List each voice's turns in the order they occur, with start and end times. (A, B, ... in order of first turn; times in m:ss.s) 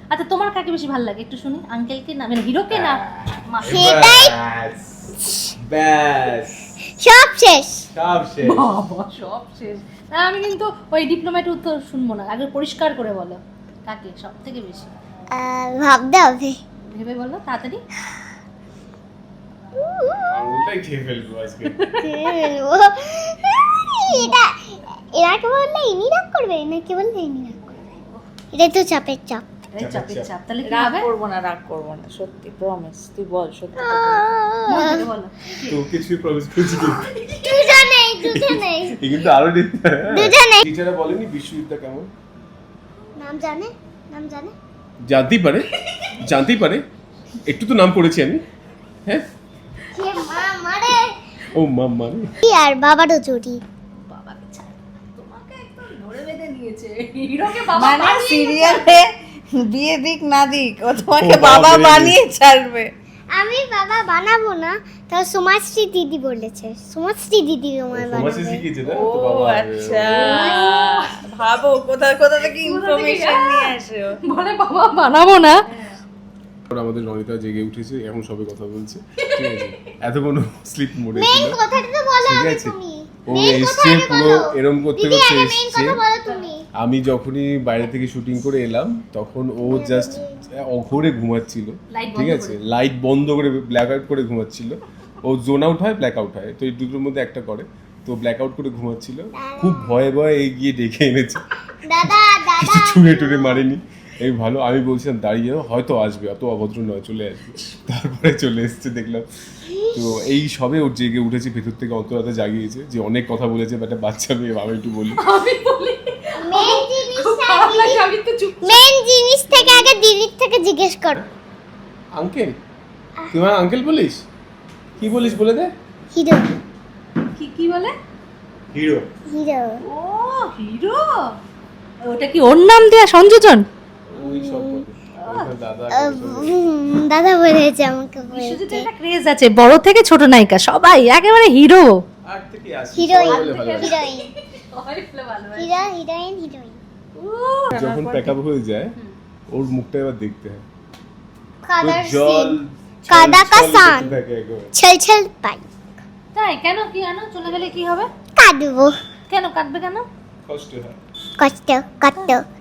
0:00.1-0:04.0 A
0:02.7-0:05.1 B
0:03.7-0:04.4 C
0:05.7-0:06.7 B
0:07.0-0:07.9 C
0:07.9-0:08.7 B
0:08.4-0:14.9 A
0:15.3-0:16.6 C
0:16.9-0:17.8 A
0:19.7-0:20.3 C
0:20.3-0:21.7 B
0:22.0-0:27.9 C
0:24.1-0:24.4 A
0:28.5-0:29.4 C
0:29.7-0:31.1 A
0:29.8-0:30.3 B
0:30.7-0:34.3 D
0:33.8-0:35.1 C
0:34.7-0:35.8 A
0:35.7-0:37.1 B
0:37.4-0:39.0 C
0:38.2-0:42.1 B
0:40.1-0:40.6 C
0:43.2-0:44.5 C
0:45.1-0:45.7 B
0:46.2-0:46.8 B
0:47.5-0:48.4 B
0:49.9-0:51.2 C
0:51.5-0:52.4 B
0:52.4-0:53.6 C
0:54.0-0:59.0 A
0:57.7-1:02.9 D
1:01.2-1:02.2 B
1:03.3-1:08.6 C
1:07.9-1:10.4 B
1:08.9-1:14.2 D
1:10.1-1:11.1 A
1:12.6-1:13.7 A
1:14.2-1:15.5 A
1:16.7-1:21.6 B
1:19.2-1:19.9 A
1:21.2-1:26.6 C
1:22.2-1:22.8 B
1:23.3-1:26.0 B
1:26.8-1:41.4 B
1:29.7-1:30.3 C
1:31.9-1:32.6 A
1:39.4-1:40.0 C
1:41.8-1:43.7 C
1:42.1-1:49.3 B
1:49.7-1:50.0 C
1:49.9-1:55.2 B
1:55.2-1:58.8 A
1:56.4-1:58.1 C
1:58.6-2:01.2 C
1:59.5-1:59.9 A
2:02.2-2:02.5 B
2:03.3-2:04.2 B
2:05.0-2:05.7 B
2:06.1-2:06.5 C
2:07.4-2:07.9 A
2:08.7-2:09.1 B
2:09.3-2:09.8 C
2:09.8-2:11.1 A
2:12.1-2:13.6 A
2:14.1-2:16.6 B
2:14.2-2:14.8 C
2:15.2-2:15.5 A
2:15.9-2:18.9 C
2:18.3-2:22.0 A
2:22.3-2:24.0 B
2:23.0-2:24.3 C
2:23.3-2:25.9 A
2:25.6-2:26.8 C
2:27.2-2:27.7 A
2:27.7-2:28.3 D
2:27.7-2:29.0 B
2:29.5-2:30.6 B
2:31.6-2:32.6 C
2:31.8-2:34.7 B
2:33.1-2:34.1 C
2:34.7-2:35.6 C
2:36.4-2:38.1 A
2:38.4-2:38.9 C
2:39.3-2:40.0 A
2:40.5-2:41.0 B
2:41.4-2:42.4 C
2:42.1-2:42.4 A